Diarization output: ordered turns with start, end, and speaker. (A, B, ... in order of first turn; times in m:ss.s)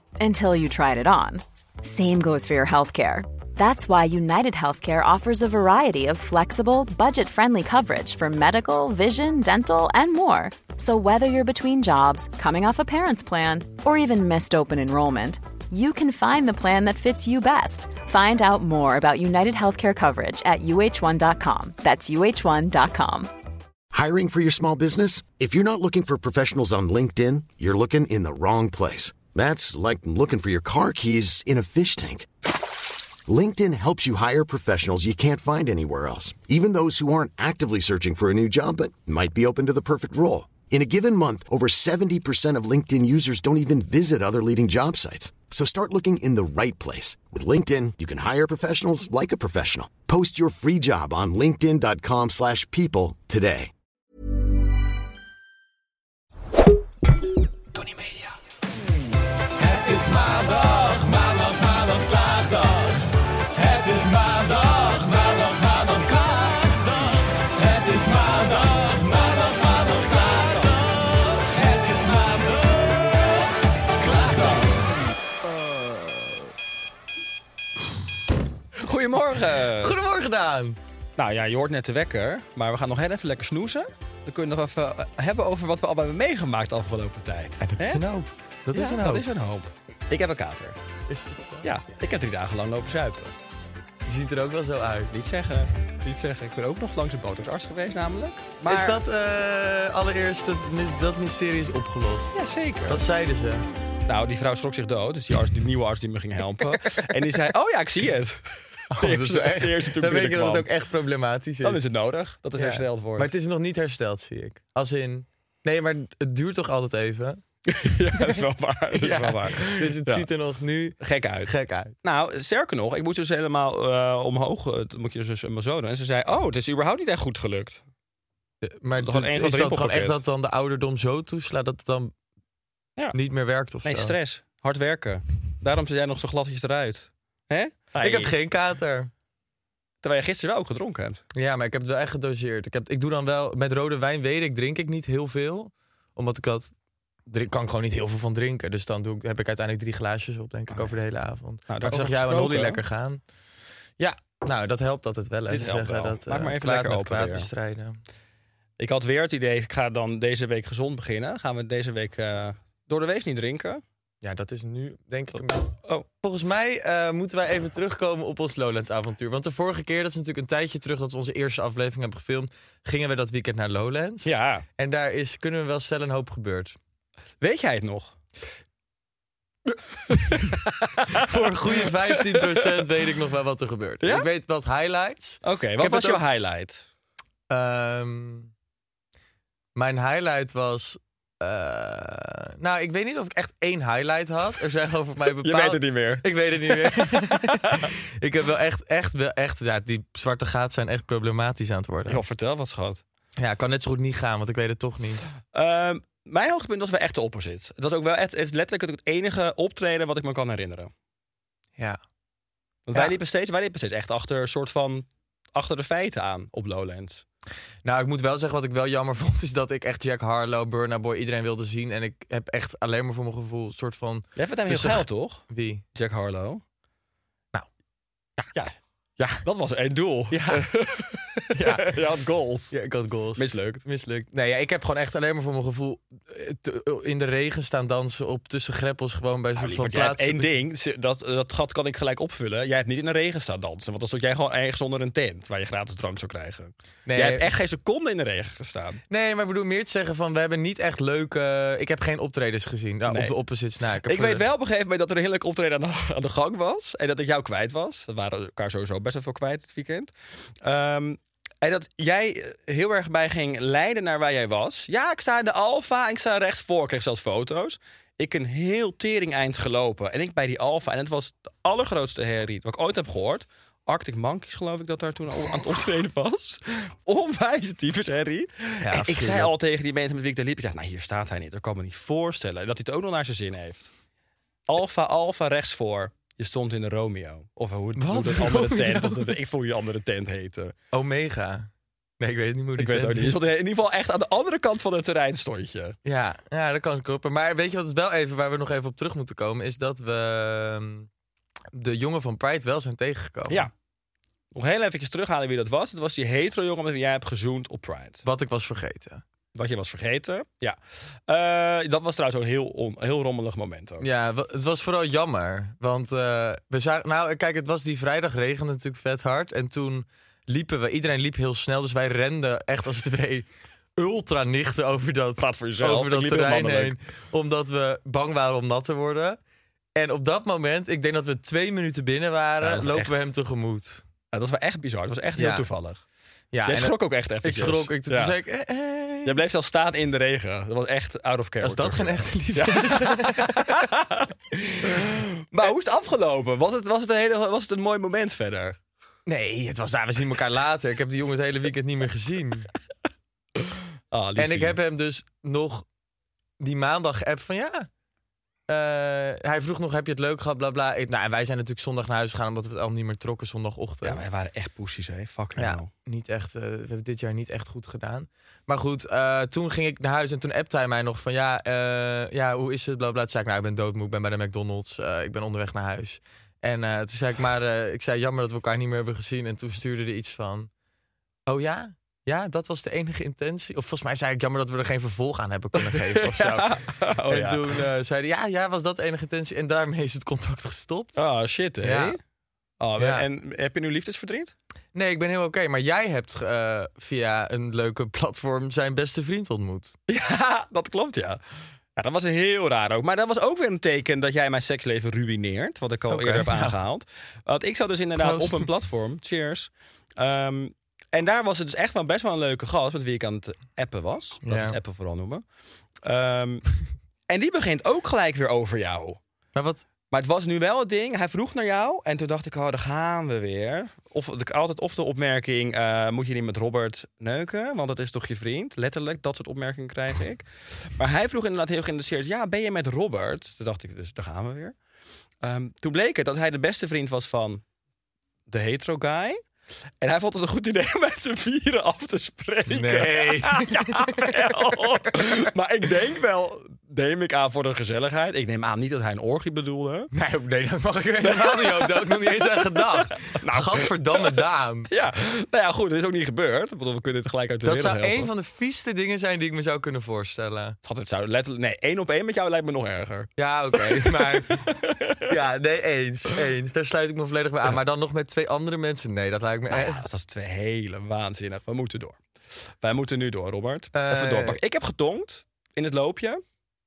0:00.2-0:23.3 A
0:23.9-0:32.3 B
0:33.3-0:53.7 B
0:59.6-1:03.0 C
1:03.5-1:13.3 C
1:14.0-1:14.7 C
1:15.7-1:16.4 C
1:18.8-1:20.0 D
1:19.8-1:20.8 C
1:21.2-1:28.0 D
1:27.6-1:29.2 C
1:28.7-1:30.8 D
1:31.1-1:31.7 C
1:31.6-1:33.4 D
1:34.1-1:35.1 C
1:35.1-1:39.0 D
1:38.7-1:42.3 C
1:42.3-1:43.0 D
1:42.9-1:43.7 C
1:44.1-1:50.7 D
1:48.9-1:51.8 C
1:51.6-1:53.3 D
1:52.6-1:57.4 C
1:57.7-2:00.2 D
1:58.9-2:01.9 C
2:01.0-2:01.5 D
2:02.0-2:07.8 D
2:08.7-2:12.1 C
2:09.0-2:10.2 D
2:13.1-2:14.2 C
2:13.8-2:18.3 D
2:18.0-2:19.1 C
2:20.0-2:21.2 D
2:21.3-2:26.7 C
2:27.3-2:33.2 C
2:31.7-2:32.8 D
2:34.0-2:38.0 C
2:35.5-2:37.5 D
2:38.8-2:43.8 D
2:44.2-2:56.8 C
2:54.2-2:54.6 D
2:57.4-2:58.2 D
3:00.1-3:02.7 D
3:01.1-3:06.2 C
3:04.0-3:04.3 D
3:05.4-3:06.8 D
3:07.5-3:08.5 C
3:09.8-3:22.2 C
3:15.4-3:17.9 D
3:22.1-3:23.0 D
3:23.4-3:25.2 C
3:25.5-3:30.9 D
3:32.9-3:37.2 D
3:37.8-3:45.8 C
3:44.4-3:45.4 D
3:45.9-3:46.6 D
3:48.6-3:52.8 D
3:50.3-3:50.7 C
3:51.6-3:52.0 C
3:52.7-4:00.5 C
3:53.4-3:53.8 D
3:59.6-4:09.0 D
4:07.1-4:07.5 C
4:09.1-4:14.4 C
4:13.1-4:13.4 D
4:14.0-4:43.9 D
4:38.8-4:39.5 C
4:44.7-4:50.8 D
4:48.0-4:49.4 C
4:50.9-4:53.4 C
4:52.8-4:56.0 D
4:56.0-5:01.1 C
5:01.7-5:03.7 C
5:04.5-5:08.2 D
5:08.2-5:09.2 C
5:09.5-5:14.1 D
5:14.0-5:23.5 C
5:24.0-5:29.4 C
5:25.4-5:26.9 D
5:30.0-5:34.0 C
5:32.6-5:33.2 D
5:34.3-5:36.0 D
5:35.4-5:35.6 C
5:36.5-5:39.4 C
5:36.7-5:38.4 D
5:39.2-5:44.3 D
5:41.6-5:43.8 C
5:44.6-5:45.0 C
5:44.8-5:48.8 D
5:49.3-5:52.7 C
5:54.1-5:54.8 D
5:54.4-5:55.8 C
5:56.6-5:57.9 C
5:58.7-6:04.2 C
6:04.0-6:05.9 D
6:05.6-6:20.7 C
6:21.5-6:31.2 C
6:25.8-6:27.8 D
6:31.2-6:32.2 D
6:31.8-6:32.2 C
6:32.8-6:34.5 D
6:33.0-6:33.2 C
6:34.9-6:40.0 C
6:40.1-6:41.4 D
6:42.0-6:55.4 D
6:46.1-6:46.8 C
6:48.2-6:48.7 C
6:54.4-6:54.8 C
6:56.0-6:56.6 D
6:57.3-6:59.2 D
6:59.6-6:59.8 C
7:00.1-7:14.8 D
7:15.4-7:17.6 D
7:18.5-7:19.4 D
7:20.0-7:30.1 D
7:22.7-7:24.4 C
7:30.1-7:34.9 C
7:31.2-7:38.3 D
7:37.6-7:40.8 C
7:40.8-7:43.3 D
7:43.4-7:44.8 C
7:43.8-7:45.2 D
7:45.3-7:50.0 C
7:49.7-7:52.2 D
7:52.8-7:56.4 D
7:54.0-7:54.6 C